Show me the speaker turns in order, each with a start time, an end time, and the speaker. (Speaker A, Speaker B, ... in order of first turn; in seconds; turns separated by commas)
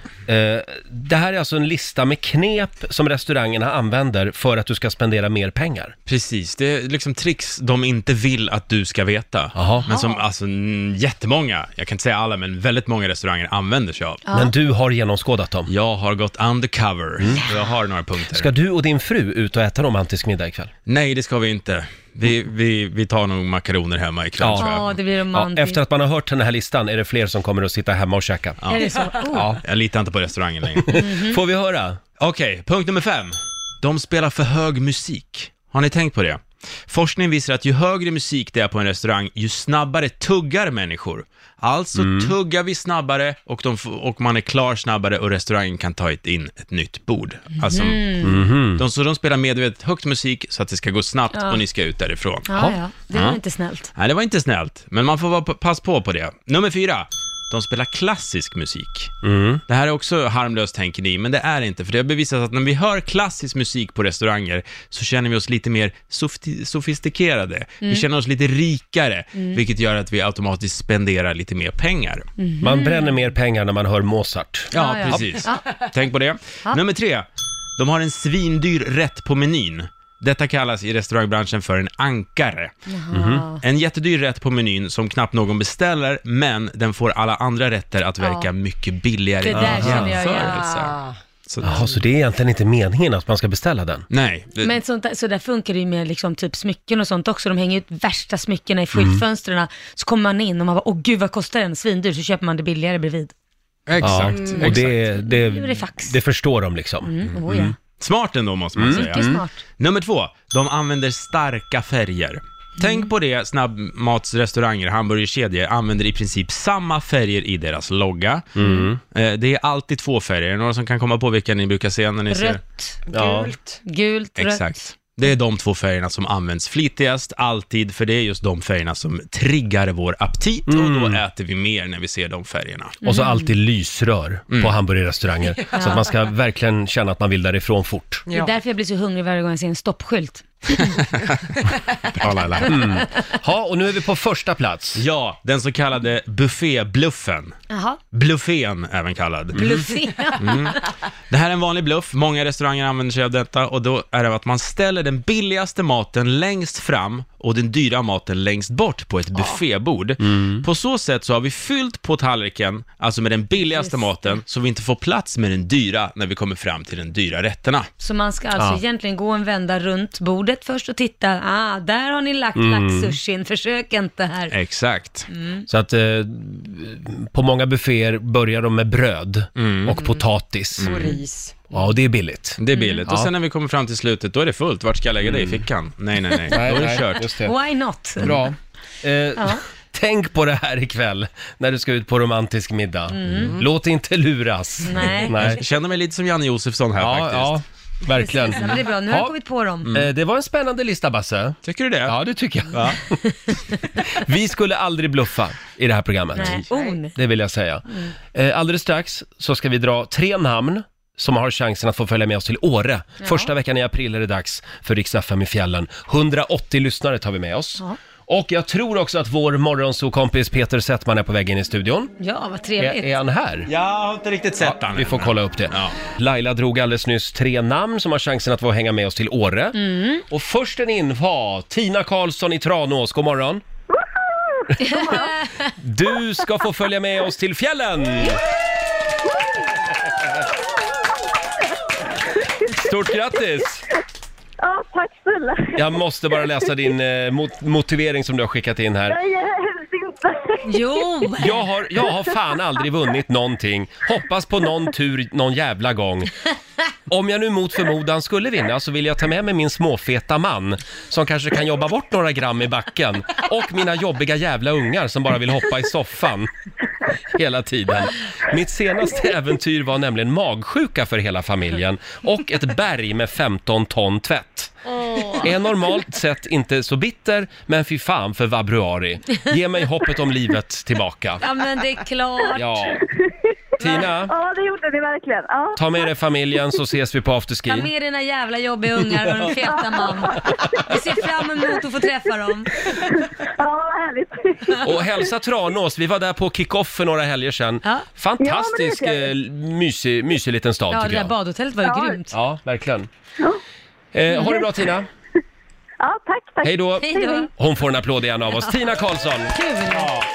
Speaker A: 0.3-5.9, Speaker B: 6.0-14.2, Speaker A: 9.5-9.9, Speaker C: 9.9-10.2, Speaker C: 14.2-14.5, Speaker A: 14.3-15.7, Speaker B: 15.7-18.5, Speaker A: 17.2-17.4, Speaker A: 18.3-20.7, Speaker B: 20.9-24.9, Speaker A: 24.4-28.7, Speaker C: 24.6-25.8, Speaker B: 28.6-28.9, Speaker C: 28.7-29.6, Speaker A: 29.3-29.6, Speaker B: 29.6-31.0, Speaker A: 30.8-32.0, Speaker C: 30.9-31.4, Speaker B: 32.2-48.2, Speaker A: 41.9-42.3, Speaker C: 47.6-48.4, Speaker A: 48.2-48.8, Speaker B: 48.8-52.5, Speaker C: 51.3-51.6, Speaker C: 52.5-53.9, Speaker B: 53.1-53.4, Speaker B: 53.9-59.1, Speaker A: 59.2-59.6, Speaker B: 59.7-72.3, Speaker C: 72.4-73.1, Speaker A: 72.6-75.4, Speaker C: 74.7-75.7, Speaker B: 74.7-82.7, Speaker C: 82.9-83.6, Speaker A: 83.1-83.5, Speaker B: 83.6-91.8, Speaker C: 88.2-88.5, Speaker C: 89.4-90.7, Speaker A: 89.5-90.2, Speaker D: 90.3-91.1, Speaker A: 91.6-94.0, Speaker B: 94.1-94.7, Speaker C: 94.6-103.3, Speaker A: 98.9-99.2, Speaker B: 103.9-104.9, Speaker A: 104.0-107.7, Speaker C: 104.3-106.2, Speaker C: 107.0-107.8, Speaker B: 108.0-118.5, Speaker A: 108.8-109.4, Speaker C: 108.8-109.6, Speaker C: 112.8-113.1, Speaker A: 118.5-119.0, Speaker C: 118.6-118.9, Speaker B: 119.1-122.6, Speaker C: 122.3-123.0, Speaker D: 123.1-123.8, Speaker A: 123.1-123.5, Speaker C: 123.8-124.8, Speaker B: 124.4-133.0, Speaker A: 130.7-131.2, Speaker C: 133.0-133.5, Speaker A: 133.0-138.2, Speaker C: 135.7-136.1, Speaker D: 138.3-138.5, Speaker C: 138.3-141.0, Speaker B: 142.2-142.7, Speaker A: 142.6-145.0, Speaker B: 144.9-147.5, Speaker C: 147.7-148.0, Speaker B: 148.1-150.8, Speaker C: 149.5-150.8, Speaker B: 151.3-167.9, Speaker A: 160.2-160.6, Speaker C: 163.6-164.4, Speaker C: 168.0-174.5, Speaker A: 168.6-168.8, Speaker A: 172.5-173.2, Speaker B: 174.5-175.3, Speaker C: 175.3-175.7, Speaker A: 175.7-180.9, Speaker B: 179.6-179.9, Speaker D: 179.9-180.2, Speaker B: 180.8-181.1, Speaker D: 180.8-181.6, Speaker A: 181.7-183.3, Speaker B: 182.6-187.3, Speaker C: 182.7-183.1, Speaker A: 185.2-185.6, Speaker A: 186.5-187.5, Speaker C: 187.4-188.4, Speaker A: 188.2-195.6, Speaker C: 189.4-189.6, Speaker C: 193.1-193.6, Speaker C: 194.8-195.6, Speaker B: 195.4-197.6, Speaker A: 197.0-203.2, Speaker C: 198.1-200.0, Speaker B: 201.6-202.1, Speaker B: 202.7-203.0, Speaker A: 204.0-206.6, Speaker C: 206.3-207.2, Speaker D: 206.7-207.0, Speaker A: 207.1-222.1, Speaker C: 213.2-213.5, Speaker C: 222.2-223.1, Speaker A: 222.8-223.7, Speaker B: 223.7-225.9, Speaker A: 224.6-233.6, Speaker C: 229.7-230.2, Speaker E: 234.5-235.3, Speaker C: 234.8-235.7, Speaker A: 235.8-238.4, Speaker E: 239.3-239.6, Speaker A: 242.7-243.8, Speaker E: 244.6-246.0, Speaker A: 245.8-249.2, Speaker E: 249.1-251.3, Speaker C: 250.6-251.7, Speaker A: 251.4-256.3, Speaker A: 257.1-266.5, Speaker A: 267.3-274.7, Speaker C: 275.0-275.4, Speaker A: 275.4-281.4, Speaker C: 281.4-282.9, Speaker A: 282.5-283.0, Speaker A: 283.8-284.3, Speaker E: 283.8-286.1, Speaker A: 285.8-287.9, Speaker C: 287.6-292.7, Speaker A: 289.0-289.5, Speaker E: 289.7-291.9, Speaker E: 292.9-295.3, Speaker A: 294.8-301.3, Speaker E: 298.4-299.3, Speaker C: 300.9-302.3, Speaker E: 301.8-302.2, Speaker A: 302.3-303.1, Speaker A: 304.1-305.1, Speaker E: 306.0-307.5, Speaker A: 306.6-310.2, Speaker C: 307.0-307.5, Speaker C: 309.5-310.2